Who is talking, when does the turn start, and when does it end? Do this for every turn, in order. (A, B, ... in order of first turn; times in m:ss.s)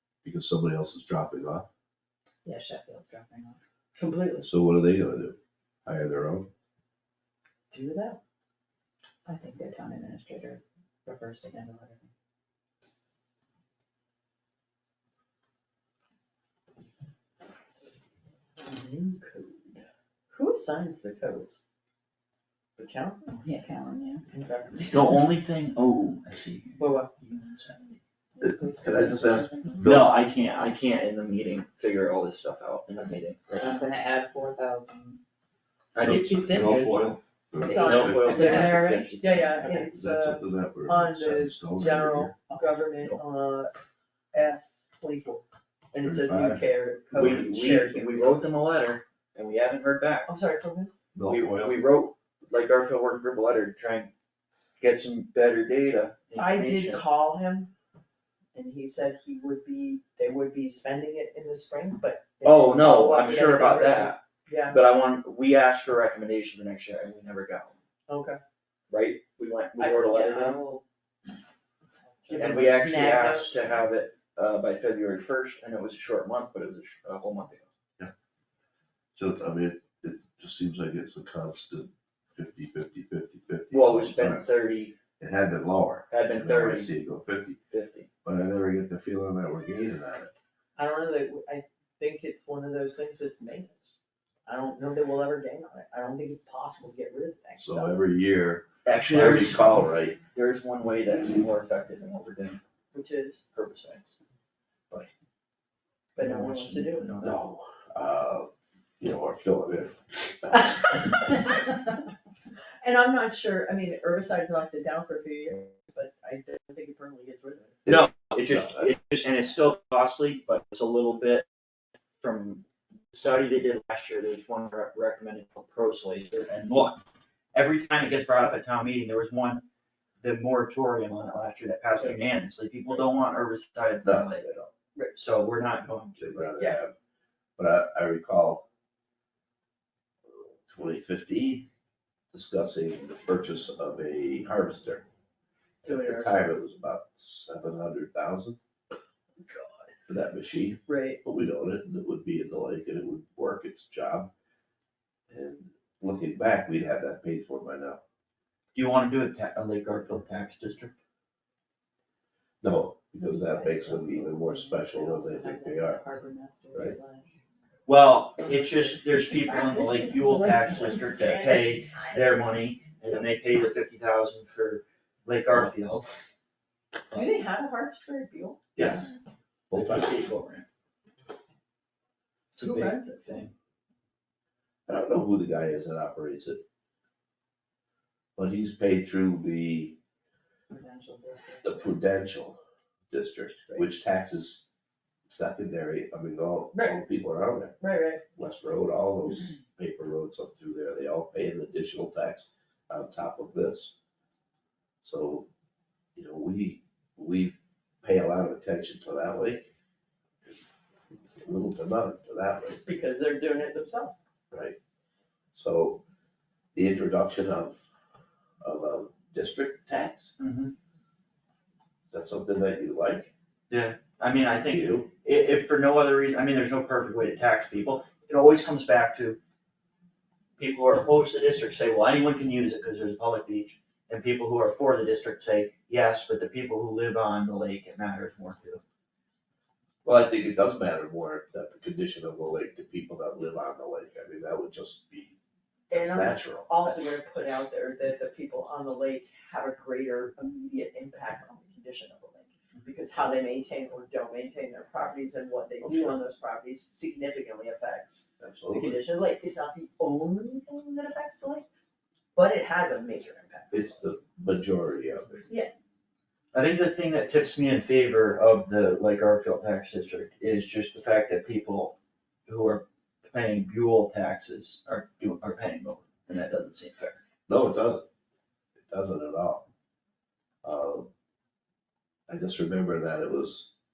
0:00.2-0:01.7 A
0:02.4-0:03.6 B
0:04.0-0:04.5 C
0:04.4-0:06.5 A
0:07.7-0:08.2 C
0:09.2-0:12.1 B
0:18.6-0:21.6 C
0:22.8-0:23.4 C
0:23.4-0:24.2 B
0:24.3-0:25.2 C
0:24.9-0:28.0 D
0:26.8-0:27.1 C
0:28.4-0:29.9 B
0:28.4-0:30.1 A
0:28.8-0:29.2 C
0:29.8-0:33.8 D
0:33.6-0:35.2 B
0:35.9-0:37.2 D
0:36.0-0:38.7 A
0:36.4-0:36.7 B
0:37.6-0:39.2 B
0:37.6-0:43.7 C
0:37.7-0:39.7 D
0:39.7-0:42.4 A
0:42.5-0:42.8 B
0:44.3-0:48.4 C
0:46.0-0:47.4 A
0:47.1-0:50.3 D
0:50.3-0:50.9 C
0:51.1-0:51.8 A
0:51.2-0:54.1 D
0:54.8-0:57.0 D
0:56.3-0:57.7 C
0:58.5-1:04.8 C
1:02.4-1:07.7 D
1:08.1-1:08.4 C
1:08.9-1:10.6 D
1:09.8-1:10.8 C
1:12.2-1:13.6 C
1:12.3-1:17.7 D
1:19.1-1:24.5 A
1:23.7-1:25.0 D
1:25.2-1:27.6 A
1:26.1-1:26.9 D
1:27.7-1:28.1 D
1:28.2-1:30.3 A
1:30.8-1:33.9 C
1:34.4-1:38.0 C
1:37.6-1:40.2 A
1:38.8-1:42.6 D
1:42.9-1:43.4 C
1:43.5-1:44.2 D
1:46.1-1:47.1 C
1:46.2-1:47.4 D
1:47.2-1:51.0 A
1:52.8-1:57.8 C
1:57.9-1:58.9 A
1:57.9-2:01.4 D
2:02.2-2:07.0 D
2:07.5-2:09.6 D
2:10.2-2:14.4 D
2:14.0-2:14.7 A
2:15.2-2:16.8 D
2:16.2-2:16.9 A
2:17.6-2:18.7 A
2:20.3-2:21.7 A
2:22.3-2:25.0 A
2:25.8-2:26.6 C
2:25.8-2:28.6 A
2:29.5-2:29.8 C
2:30.1-2:34.3 A
2:30.9-2:31.2 C
2:35.3-2:38.0 A
2:38.8-2:40.9 D
2:42.6-2:46.0 A
2:43.2-2:47.3 C
2:47.9-2:56.1 D
2:48.5-2:50.7 C
2:49.8-2:52.2 B
2:57.1-2:58.6 C
2:58.8-2:59.1 D
2:58.8-2:59.1 A
2:59.7-3:00.2 A
2:59.7-3:00.7 D
3:02.6-3:03.5 D
3:02.6-3:03.4 C
3:04.9-3:06.6 A
3:08.4-3:10.0 A
3:10.7-3:11.7 C
3:11.6-3:12.6 A
3:13.1-3:14.7 A
3:15.3-3:17.8 A
3:16.7-3:17.0 C
3:17.8-3:18.2 C
3:18.3-3:24.0 A
3:25.0-3:25.5 A
3:26.2-3:29.7 A
3:31.4-3:32.8 A
3:32.8-3:34.2 C
3:34.5-3:34.8 A
3:35.5-3:36.0 A
3:36.8-3:37.8 A
3:38.6-3:40.3 A
3:40.4-3:40.7 D
3:42.1-3:43.3 A
3:43.7-3:49.4 D
3:44.6-3:45.1 A
3:50.6-3:58.8 D
4:00.0-4:05.4 A
4:05.9-4:21.6 C
4:05.9-4:06.8 A
4:15.8-4:16.2 A
4:18.4-4:19.0 A
4:22.3-4:23.9 C
4:23.7-4:25.5 A
4:25.5-4:25.7 C
4:26.5-4:31.9 D
4:32.5-4:37.2 D
4:37.5-4:38.1 A
4:38.9-4:39.7 A
4:40.6-4:41.1 A
4:42.3-4:43.7 A